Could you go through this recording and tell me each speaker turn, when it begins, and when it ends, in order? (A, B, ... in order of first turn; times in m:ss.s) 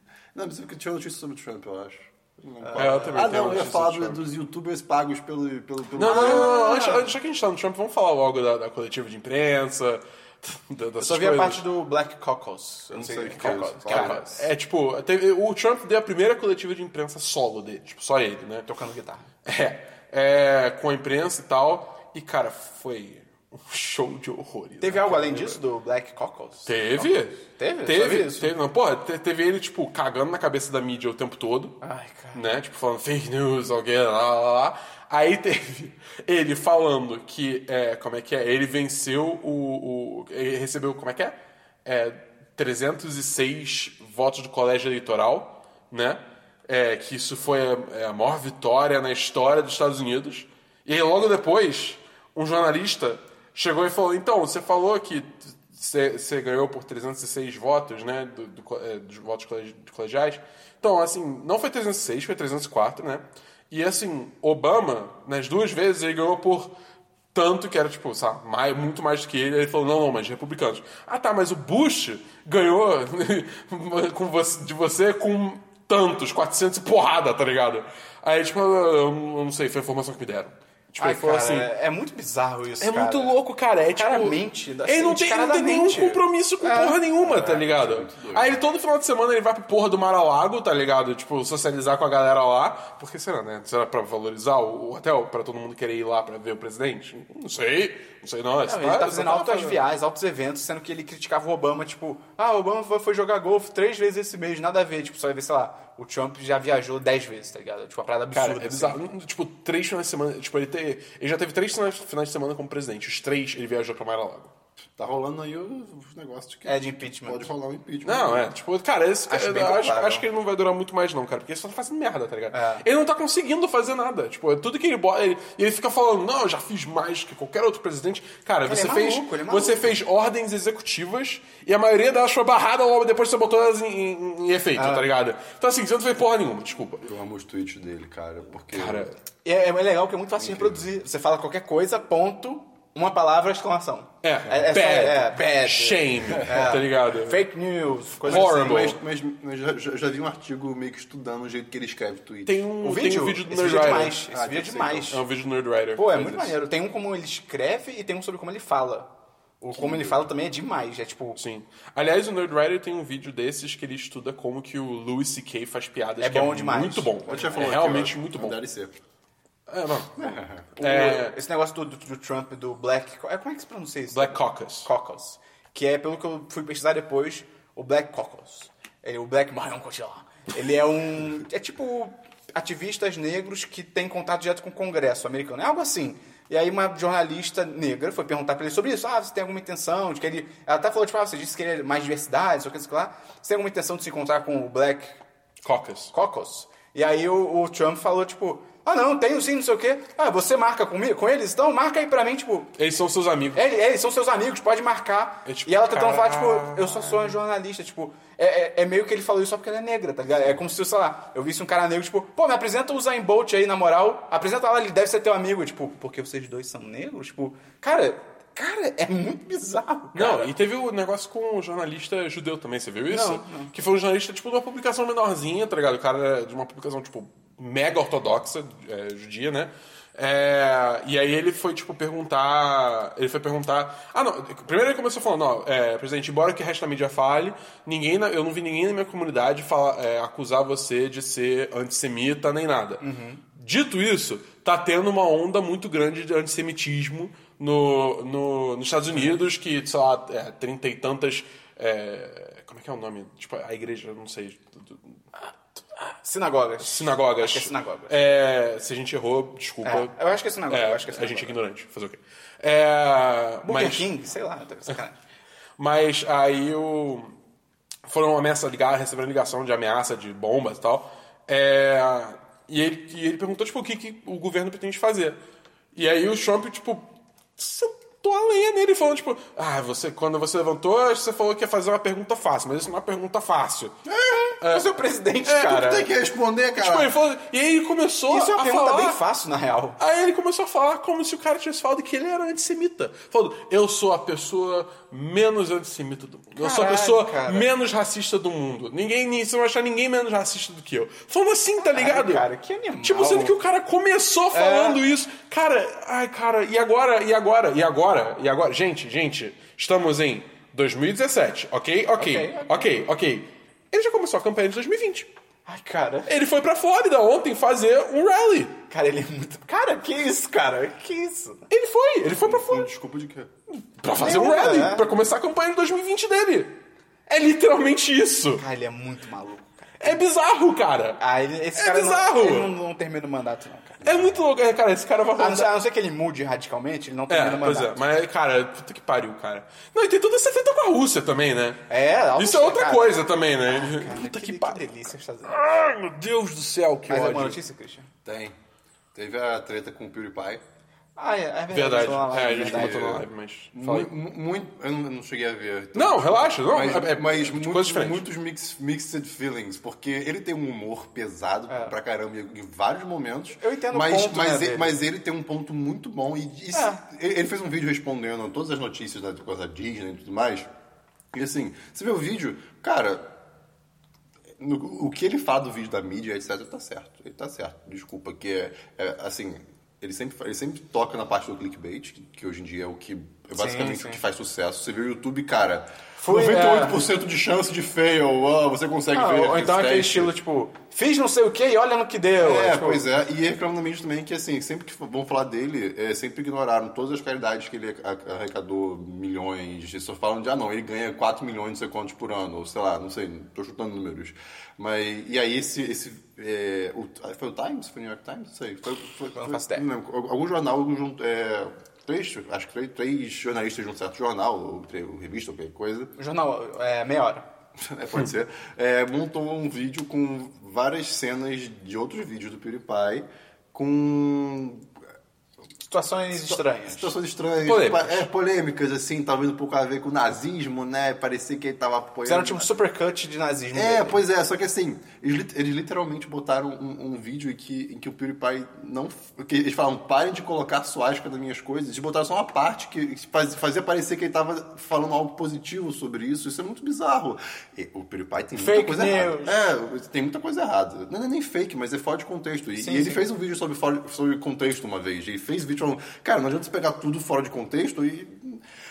0:00.3-0:06.6 A
0:02.6-0:03.3 B
0:02.8-0:04.2 C
0:06.0-0:11.6 C
0:06.0-0:07.1 B
0:11.0-0:14.5 B
0:12.9-0:14.2 A
0:13.4-0:18.7 C
0:18.7-0:19.3 B
0:19.4-0:25.6 C
0:24.8-0:28.5 B
0:26.6-0:31.8 C
0:31.8-0:32.4 B
0:32.3-1:06.7 C
1:07.3-1:21.7 C
1:21.0-1:23.4 B
1:22.8-1:39.8 C
1:23.9-1:27.0 B
1:27.2-1:28.6 A
1:38.6-1:49.0 B
1:48.3-1:54.5 C
1:55.0-1:58.5 A
1:56.6-1:57.5 B
1:58.0-2:17.0 C
1:59.3-2:00.2 B
2:02.5-2:02.8 B
2:08.6-2:09.9 B
2:14.7-2:15.1 B
2:17.0-2:19.1 A
2:18.7-2:19.1 C
2:19.4-2:28.9 B
2:20.4-2:20.8 A
2:24.2-2:27.4 C
2:28.2-2:29.0 C
2:28.2-2:32.6 A
2:32.4-2:34.2 C
2:32.8-2:35.2 B
2:34.3-2:35.2 A
2:35.0-2:36.6 C
2:36.0-2:39.1 B
2:39.6-2:41.4 B
2:39.7-2:40.2 A
2:41.4-2:48.6 C
2:46.2-2:47.7 B
2:47.3-2:49.0 A
2:49.7-2:50.2 C
2:50.2-2:50.7 A
2:50.7-3:15.2 B
2:50.8-2:51.4 C
2:54.1-2:54.9 C
3:15.6-3:16.1 C
3:16.1-3:22.7 B
3:22.8-3:23.6 C
3:23.5-3:40.5 B
3:25.4-3:27.4 C
3:40.1-4:03.0 C
3:43.1-3:43.7 B
4:03.0-4:03.4 B
4:03.5-4:15.2 C
4:16.1-4:18.2 B
4:16.8-4:24.1 C
4:19.8-4:21.6 B
4:23.6-4:25.2 B
4:25.8-4:27.4 C
4:28.0-4:35.4 C
4:35.9-4:43.9 C
4:44.0-4:44.5 A
4:44.5-4:46.1 B
4:44.6-4:45.9 C
4:45.6-4:47.1 A
4:46.7-4:49.2 C
4:48.3-4:50.0 B
4:50.0-5:02.4 C
4:56.6-4:57.7 B
5:01.8-5:03.5 B
5:03.0-5:15.3 C
5:04.5-5:05.0 B
5:12.2-5:12.9 B
5:15.6-5:16.3 B
5:16.3-5:18.8 C
5:18.9-5:21.7 B
5:21.7-5:22.9 C
5:22.4-5:23.5 A
5:24.0-5:28.6 C
5:24.2-5:25.1 B
5:28.6-5:30.2 B
5:30.0-5:31.2 C
5:31.2-5:34.4 B
5:31.8-5:32.7 C
5:34.0-5:35.7 C
5:35.4-5:38.0 B
5:37.3-5:47.6 C
5:41.9-5:45.7 B
5:47.0-5:48.1 B
5:48.2-5:48.6 A
5:49.1-5:50.6 A
5:51.2-5:53.1 B
5:51.7-5:54.1 C
5:52.5-6:10.7 A
5:55.9-5:58.3 C
6:01.7-6:02.0 B
6:03.6-6:05.0 B
6:06.7-6:07.0 B
6:11.3-6:13.3 A
6:14.6-6:30.3 A
6:23.6-6:24.2 B
6:26.2-6:27.0 B
6:29.1-6:33.1 B
6:32.4-6:56.1 A
6:49.3-6:49.8 B
6:56.2-6:57.5 B
6:57.8-7:04.9 A
7:05.8-7:07.1 B
7:06.3-7:12.7 A
7:07.6-7:08.3 C
7:12.2-7:14.2 B
7:13.7-7:38.6 A
7:28.6-7:29.5 B
7:32.8-7:33.2 B